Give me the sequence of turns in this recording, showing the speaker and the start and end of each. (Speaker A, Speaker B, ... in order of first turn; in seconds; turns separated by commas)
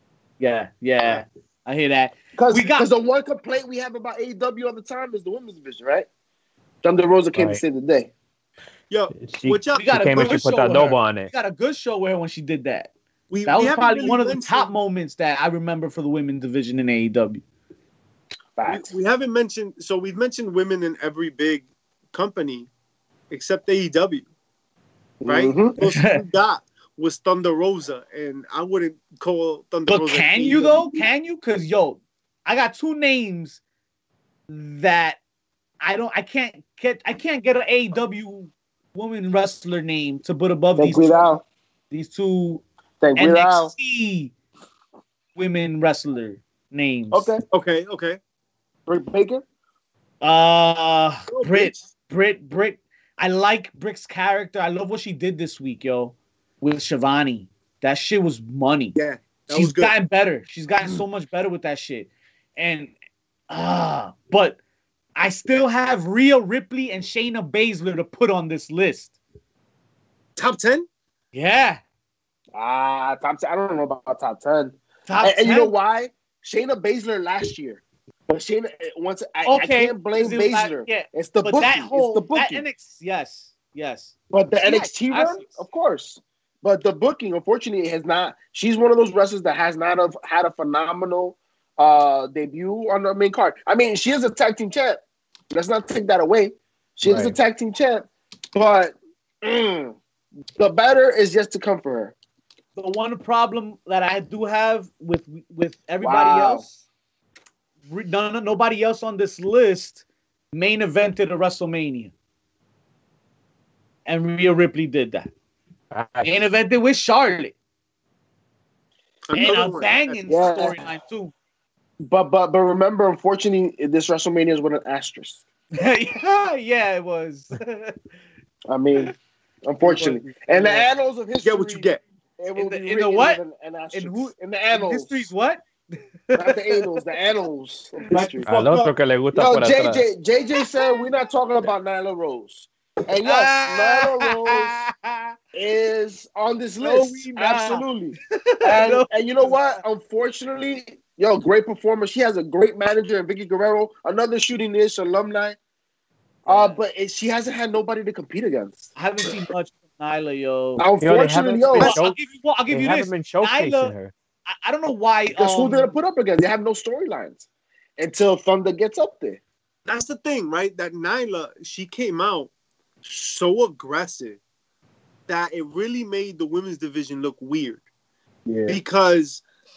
Speaker A: 0.4-2.9, Speaker B: 2.4-6.1, Speaker B: 6.8-8.1, Speaker C: 7.3-7.6, Speaker D: 8.9-11.0, Speaker C: 9.1-11.3, Speaker A: 9.8-12.9, Speaker D: 13.3-14.7, Speaker A: 13.4-17.4, Speaker B: 18.6-18.9, Speaker D: 18.7-22.7, Speaker D: 23.3-24.3, Speaker B: 25.2-25.7, Speaker D: 25.2-30.9, Speaker A: 25.8-26.2, Speaker A: 29.9-33.6, Speaker A: 34.5-35.2, Speaker A: 35.8-41.3, Speaker B: 40.8-41.4, Speaker A: 41.9-42.6, Speaker B: 43.0-43.7, Speaker A: 43.1-44.3, Speaker A: 45.3-47.3, Speaker B: 47.1-47.4, Speaker D: 47.5-48.2, Speaker B: 48.9-49.4, Speaker A: 50.2-59.0, Speaker D: 51.3-51.8, Speaker D: 58.9-59.9, Speaker A: 59.5-62.9, Speaker A: 63.5-64.6, Speaker A: 65.2-69.1, Speaker D: 70.3-70.8, Speaker A: 71.3-71.8, Speaker B: 72.5-82.6, Speaker A: 75.1-75.7, Speaker A: 79.4-85.6, Speaker B: 84.3-95.0, Speaker B: 95.5-100.0, Speaker C: 97.0-97.3, Speaker B: 100.6-102.1, Speaker A: 102.7-106.7, Speaker B: 106.0-106.6, Speaker A: 107.9-112.1, Speaker A: 114.0-115.3, Speaker C: 115.9-116.4, Speaker A: 116.2-117.5, Speaker D: 119.3-120.1, Speaker A: 119.3-121.3, Speaker B: 120.3-120.8, Speaker B: 122.0-125.4, Speaker A: 125.8-127.9, Speaker B: 128.7-129.1, Speaker B: 129.6-135.2, Speaker A: 129.8-130.8, Speaker D: 131.4-132.0, Speaker A: 132.5-133.4, Speaker A: 133.9-135.6, Speaker A: 136.3-137.0, Speaker B: 136.3-138.4, Speaker D: 138.1-138.9, Speaker C: 138.4-140.0, Speaker B: 139.3-144.8, Speaker A: 143.2-145.3, Speaker B: 145.5-155.6, Speaker A: 146.8-149.6, Speaker A: 156.4-156.8, Speaker B: 156.4-158.9, Speaker A: 158.9-160.9, Speaker B: 160.8-161.9, Speaker C: 161.0-164.1, Speaker A: 161.8-163.9, Speaker A: 164.5-165.9, Speaker B: 165.3-167.4, Speaker B: 168.0-169.4, Speaker D: 169.8-172.5, Speaker D: 173.0-174.4, Speaker D: 175.3-177.8, Speaker B: 178.4-178.8, Speaker D: 178.7-179.4